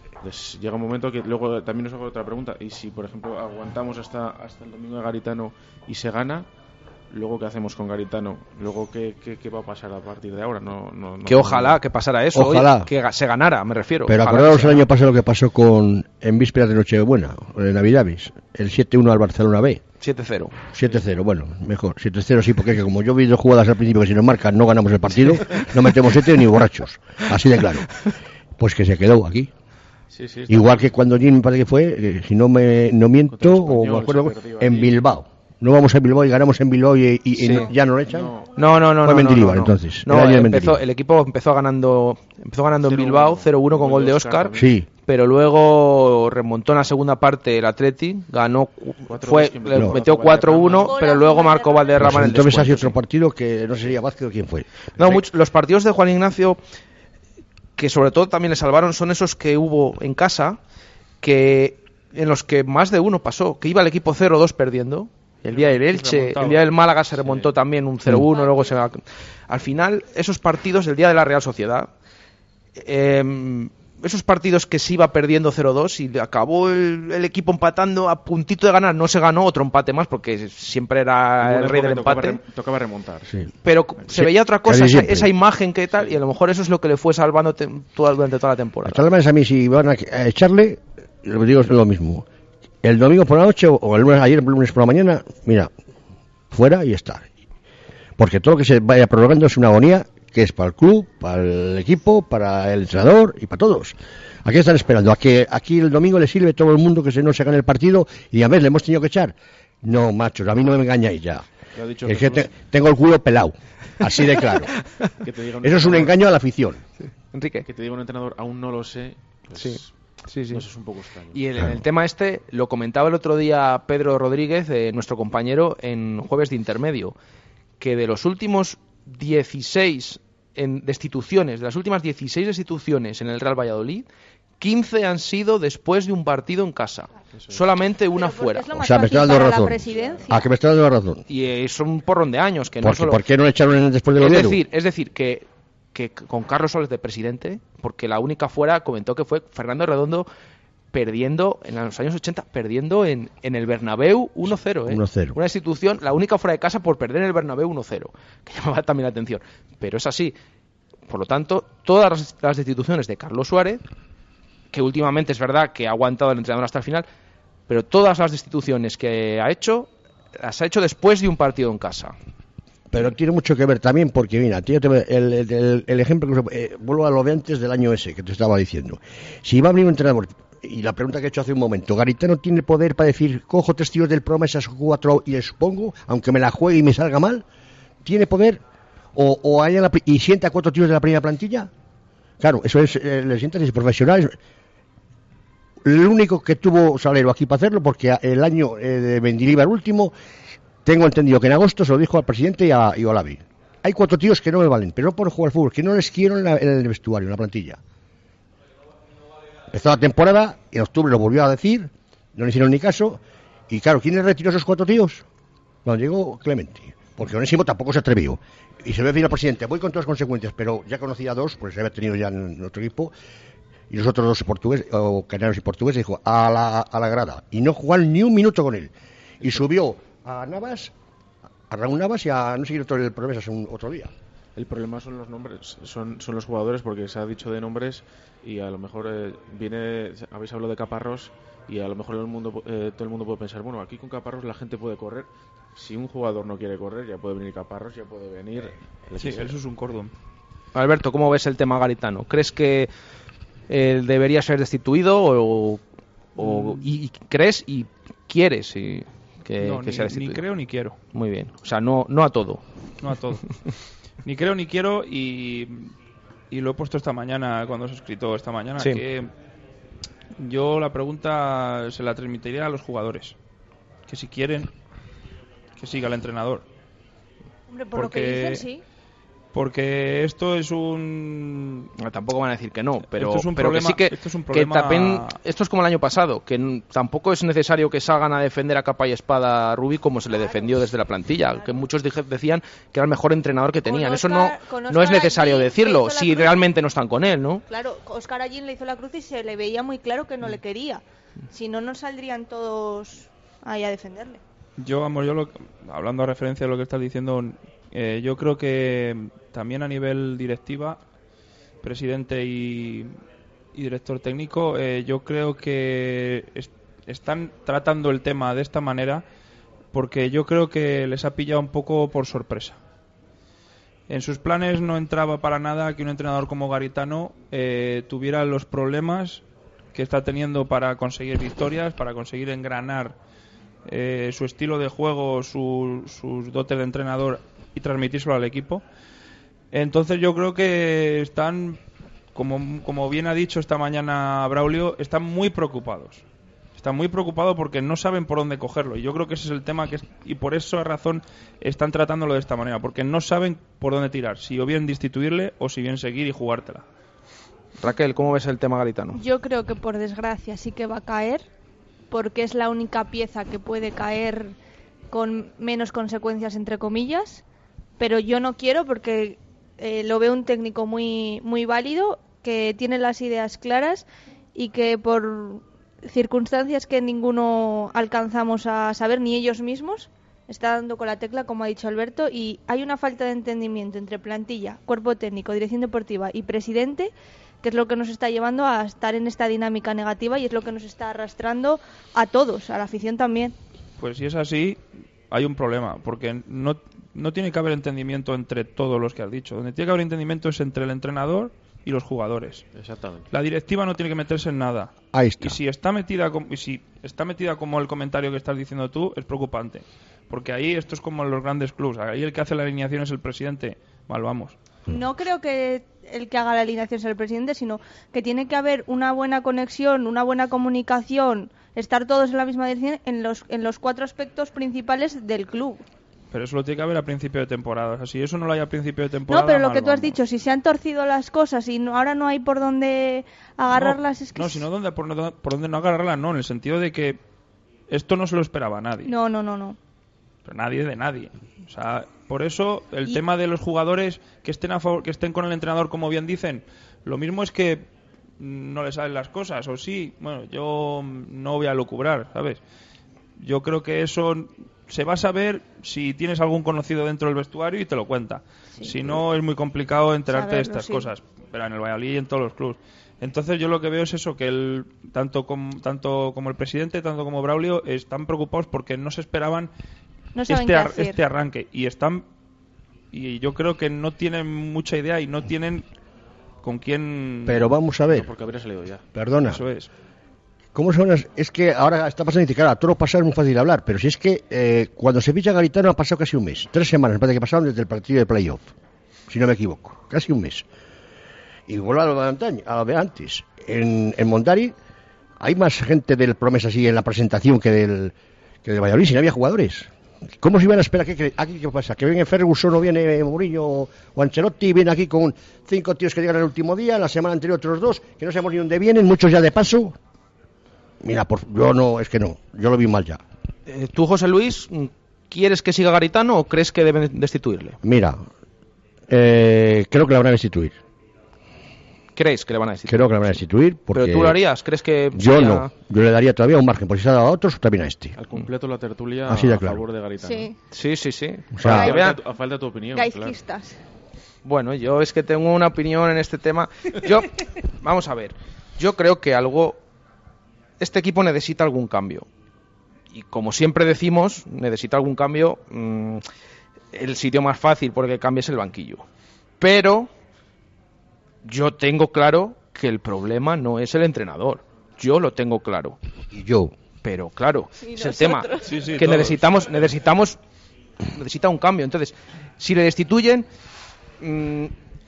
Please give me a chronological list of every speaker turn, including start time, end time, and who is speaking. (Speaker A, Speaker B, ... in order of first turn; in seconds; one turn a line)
Speaker A: 0.2-6.5
Speaker A: 7.1-11.8
Speaker B: 11.2-14.8
Speaker C: 12.3-12.9
Speaker C: 14.1-19.8
Speaker B: 20.0-20.5
Speaker C: 20.7-28.0
Speaker C: 28.6-29.5
Speaker A: 30.1-30.9
Speaker C: 30.5-38.3
Speaker A: 33.3-35.1
Speaker B: 37.4-37.7
Speaker A: 38.0-38.7
Speaker B: 38.5-44.5
Speaker C: 39.0-40.8
Speaker A: 42.8-44.8
Speaker C: 44.5-44.9
Speaker B: 45.0-53.0
Speaker A: 49.0-51.0
Speaker D: 50.7-52.2
Speaker C: 52.0-55.2
Speaker B: 55.0-56.6
Speaker B: 57.8-60.6
Speaker B: 61.2-71.9
Speaker E: 65.5-66.7
Speaker D: 68.3-68.8
Speaker B: 72.8-82.4
Speaker A: 81.4-83.3
Speaker B: 83.6-89.0
Speaker C: 84.1-85.3
Speaker C: 88.8-92.2
Speaker C: 92.8-95.7
Speaker C: 96.5-97.3
Speaker C: 98.2-111.5
Speaker A: 111.7-112.6
Speaker C: 112.0-114.7
Speaker A: 115.0-116.2
Speaker C: 115.6-116.8
Speaker B: 117.3-117.7
Speaker A: 117.7-119.9
Speaker B: 119.5-120.6
Speaker A: 120.5-121.4
Speaker B: 121.3-127.1
Speaker B: 127.8-134.1
Speaker B: 134.6-138.7
Speaker D: 138.1-140.5
Speaker C: 138.8-141.2
Speaker B: 141.3-143.2
Speaker C: 142.8-144.6
Speaker B: 144.2-150.3
Speaker B: 150.9-160.3
Speaker C: 154.9-155.3
Speaker B: 161.1-163.8
Speaker B: 164.7-167.1
Speaker B: 167.7-172.1
Speaker C: 172.9-187.4
Speaker C: 188.0-188.6
Speaker C: 189.1-191.7
Speaker C: 192.4-194.3
Speaker C: 195.8-200.1
Speaker C: 200.8-207.8
Speaker C: 209.7-215.2
Speaker C: 215.8-223.1
Speaker C: 223.9-230.9
Speaker C: 231.7-234.1
Speaker A: 234.6-249.6
Speaker E: 249.2-250.1
Speaker B: 250.7-252.9
Speaker B: 253.7-255.8
Speaker B: 256.4-260.4
Speaker E: 256.4-256.8
Speaker E: 259.6-261.0
Speaker B: 261.1-262.6
Speaker E: 263.0-263.6
Speaker E: 264.2-265.9
Speaker E: 266.5-269.3
Speaker E: 270.4-273.4
Speaker E: 274.1-274.7
Speaker E: 275.8-276.6
Speaker D: 277.7-278.8
Speaker E: 277.9-278.6
Speaker E: 279.5-281.9
Speaker B: 282.0-297.6
Speaker E: 283.1-285.4
Speaker D: 290.3-290.8
Speaker D: 293.8-296.6
Speaker D: 297.7-304.4
Speaker E: 304.8-311.0
Speaker E: 311.8-313.1
Speaker E: 313.7-319.2
Speaker E: 319.9-322.8
Speaker E: 324.1-329.4
Speaker E: 329.9-333.1
Speaker E: 333.9-338.8
Speaker E: 339.7-341.8
Speaker E: 342.3-346.2
Speaker E: 346.8-356.8
Speaker B: 357.8-359.2
Speaker D: 359.1-361.4
Speaker D: 362.1-364.5
Speaker D: 365.1-367.4
Speaker D: 368.0-393.5
Speaker E: 394.0-394.8
Speaker E: 395.3-402.6
Speaker A: 402.7-403.3
Speaker E: 403.3-414.6
Speaker C: 405.1-405.6
Speaker D: 414.9-425.8
Speaker E: 426.3-430.2
Speaker D: 429.3-434.6
Speaker E: 433.7-437.2
Speaker E: 437.9-439.1
Speaker D: 439.0-439.8
Speaker E: 440.4-447.9
Speaker E: 448.4-452.6
Speaker E: 453.4-469.7
Speaker D: 460.3-461.1
Speaker D: 470.3-471.2
Speaker E: 470.5-472.2
Speaker E: 473.1-475.8
Speaker E: 476.6-477.7
Speaker C: 477.4-478.3
Speaker A: 478.1-479.0
Speaker C: 479.1-479.6
Speaker E: 479.5-479.9
Speaker C: 480.7-488.6
Speaker C: 489.3-490.6
Speaker C: 491.7-494.7
Speaker C: 495.4-510.0
Speaker C: 511.0-513.2
Speaker B: 513.7-517.8
Speaker C: 517.8-518.2
Speaker C: 519.1-520.7
Speaker B: 522.1-523.1
Speaker C: 522.9-524.4
Speaker B: 523.9-525.7
Speaker C: 525.1-528.2
Speaker A: 528.1-530.5
Speaker C: 529.3-529.8
Speaker D: 530.2-530.5
Speaker B: 530.7-532.2
Speaker C: 531.5-531.9
Speaker A: 531.6-533.4
Speaker D: 531.7-532.0
Speaker D: 532.9-533.8
Speaker B: 534.4-539.8
Speaker B: 540.8-542.3
Speaker B: 543.1-546.2
Speaker B: 546.9-549.0
Speaker B: 549.6-550.1
Speaker B: 551.4-556.0
Speaker C: 556.3-556.7
Speaker B: 557.0-560.4
Speaker D: 557.8-559.0
Speaker E: 558.6-559.5
Speaker B: 561.0-563.5
Speaker B: 564.2-564.7